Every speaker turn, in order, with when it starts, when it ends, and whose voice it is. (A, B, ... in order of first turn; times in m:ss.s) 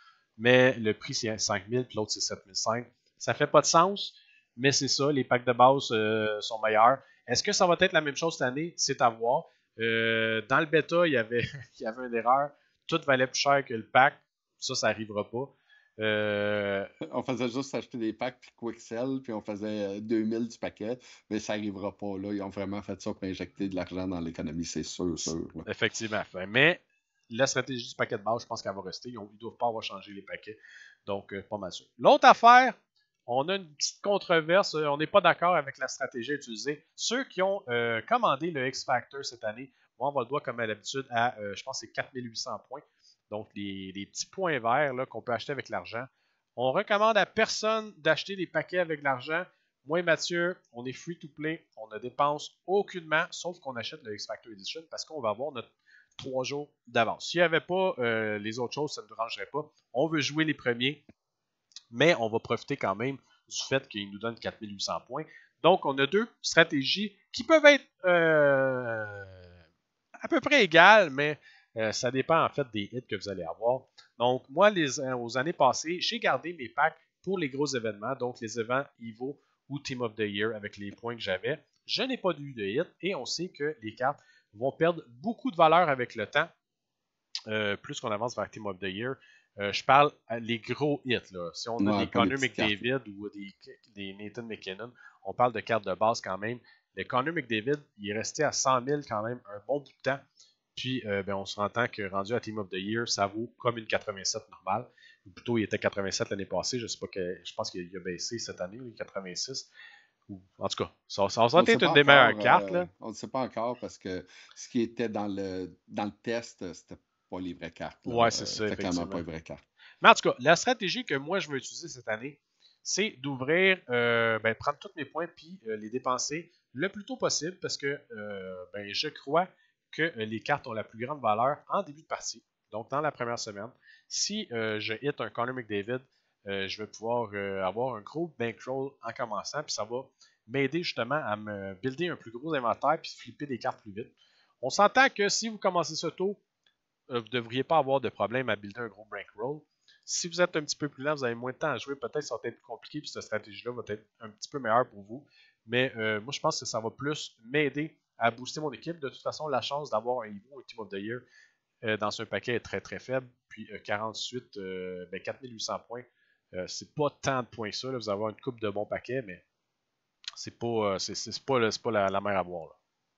0:00.4-0:16.9 A
0:17.0-0:25.6 B
0:25.6-1:01.0 A
1:01.9-1:09.5 A
1:10.2-1:26.5 A
1:27.5-1:40.2 A
1:31.8-1:32.9 B
1:40.7-1:49.7 A
1:50.3-1:52.9 A
1:51.6-1:59.6 B
1:58.0-1:59.2 A
2:00.0-2:26.4 A
2:27.1-2:41.2 A
2:41.8-2:49.4 A
2:50.4-2:52.8 A